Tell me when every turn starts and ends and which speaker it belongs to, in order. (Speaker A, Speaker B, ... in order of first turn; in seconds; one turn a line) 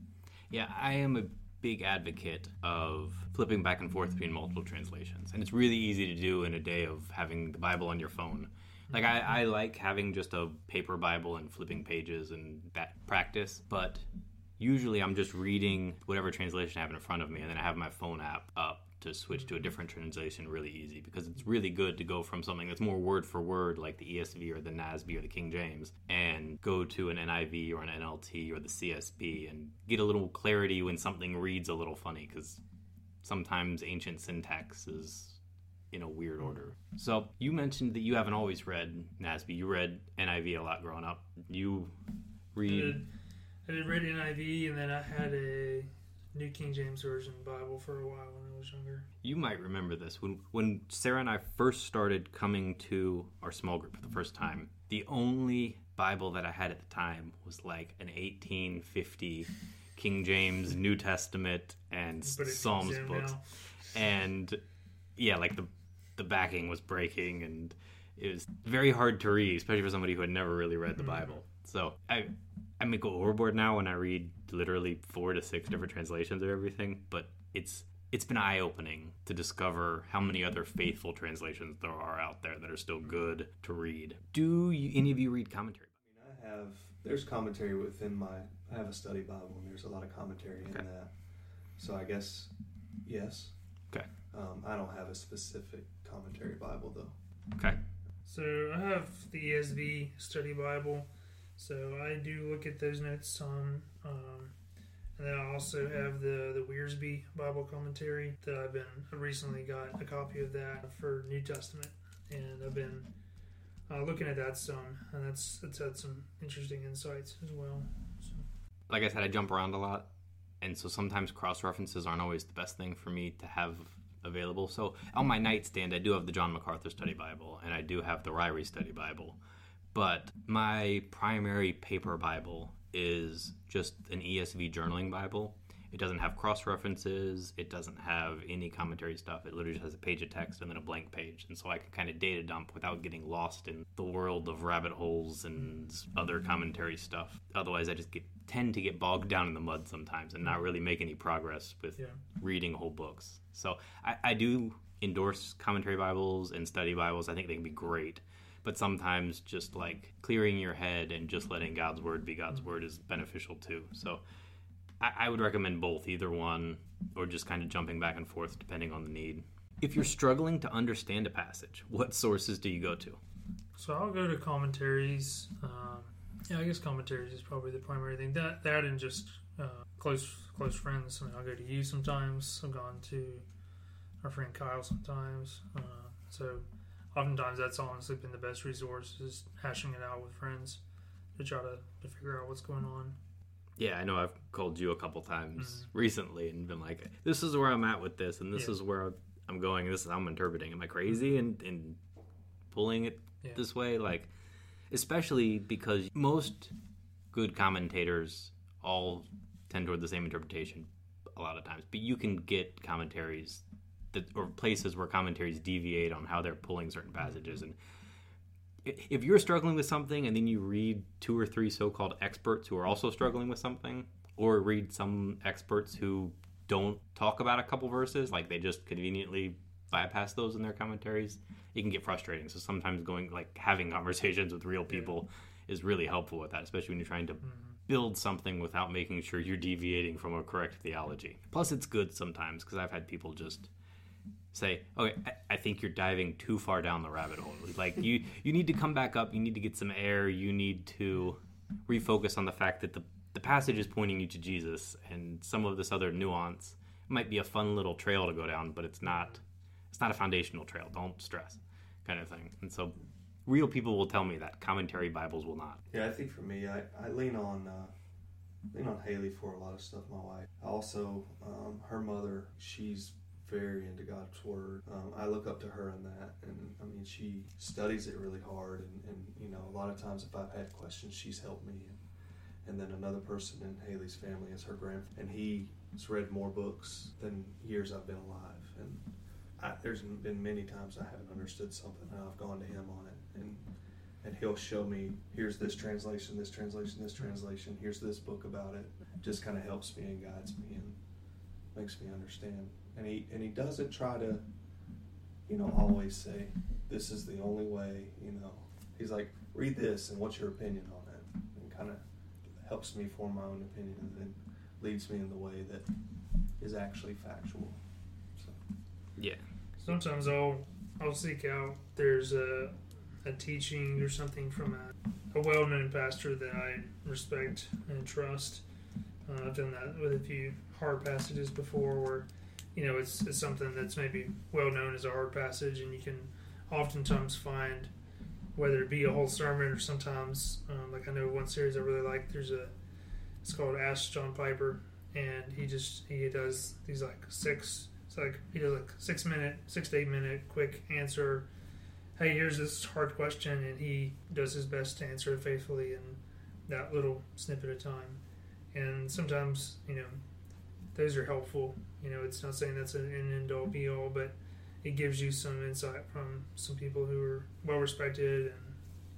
Speaker A: 0.5-14.1
Speaker A: 14.6-32.6
Speaker A: 33.2-35.4
Speaker A: 35.9-41.9
Speaker A: 42.5-43.0
Speaker B: 42.7-43.1
Speaker B: 43.7-49.0
Speaker A: 49.2-64.6
Speaker B: 62.2-63.4
Speaker A: 65.2-85.9
Speaker B: 71.0-71.4
Speaker C: 86.1-91.1
Speaker C: 91.8-92.5
Speaker C: 93.0-93.5
Speaker C: 94.3-97.2
Speaker A: 97.6-97.8
Speaker B: 98.2-104.5
Speaker B: 105.2-113.1
Speaker B: 113.9-118.4
Speaker A: 118.9-120.1
Speaker A: 120.6-129.4
Speaker A: 129.9-164.2
Speaker A: 165.0-173.2
Speaker B: 173.8-183.4
Speaker B: 184.2-190.8
Speaker B: 191.4-193.2
Speaker A: 193.8-202.0
Speaker B: 195.6-195.9
Speaker A: 202.7-204.3
Speaker A: 204.9-206.7
Speaker A: 207.3-217.8
Speaker A: 218.8-243.7
Speaker B: 237.5-237.8
Speaker A: 244.5-265.8
Speaker C: 265.9-267.9
Speaker C: 268.7-282.0
Speaker C: 282.6-289.0
Speaker C: 289.6-293.6
Speaker C: 294.2-301.0
Speaker C: 301.7-304.4
Speaker C: 305.5-312.0
Speaker C: 312.6-315.9
Speaker C: 316.6-317.8
Speaker B: 319.8-328.6
Speaker B: 329.3-337.9
Speaker B: 338.6-342.7
Speaker B: 343.4-351.5
Speaker B: 352.2-358.2
Speaker B: 358.7-360.2
Speaker B: 360.9-368.8